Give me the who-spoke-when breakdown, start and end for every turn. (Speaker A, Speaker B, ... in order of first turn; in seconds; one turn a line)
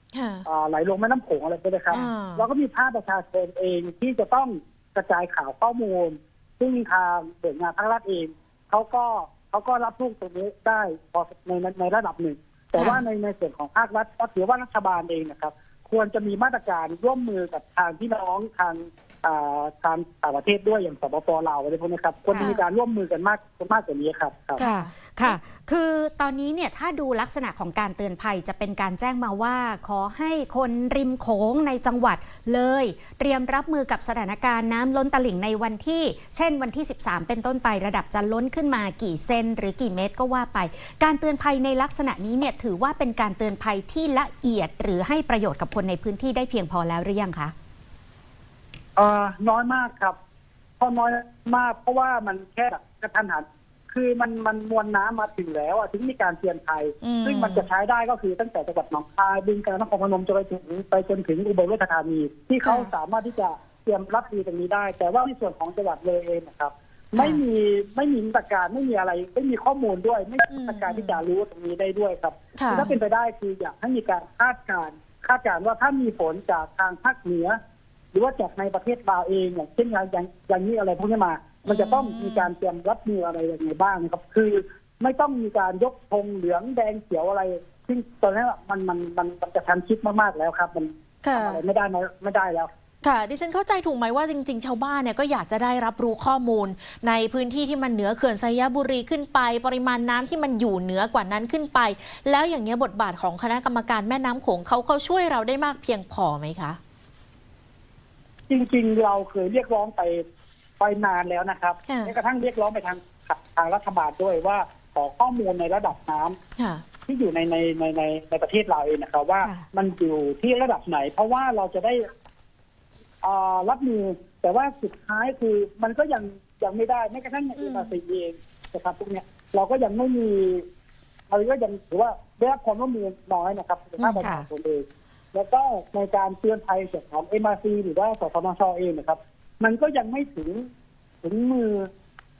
Speaker A: 0.1-0.4
Speaker B: 0.4-24.6
Speaker A: 1.9-2.5
Speaker C: 12.8-13.0
Speaker C: 22.3-22.6
Speaker A: 24.6-25.4
Speaker C: 24.6-47.5
Speaker B: 49.0-50.1
Speaker B: 50.8-77.6
Speaker A: 57.0-57.7
Speaker A: 62.6-62.9
Speaker A: 67.2-67.4
Speaker A: 70.5-71.2
Speaker A: 72.6-72.9
Speaker B: 78.1-92.7
Speaker A: 81.6-82.5
Speaker A: 91.2-91.6
Speaker A: 93.0-106.8
Speaker B: 108.5-110.2
Speaker B: 110.8-116.4
Speaker A: 111.9-112.1
Speaker A: 116.6-116.8
Speaker B: 117.1-122.0
Speaker B: 123.2-130.6
Speaker A: 127.6-127.9
Speaker B: 131.3-140.7
Speaker A: 134.0-134.3
Speaker C: 134.2-134.5
Speaker B: 141.2-141.9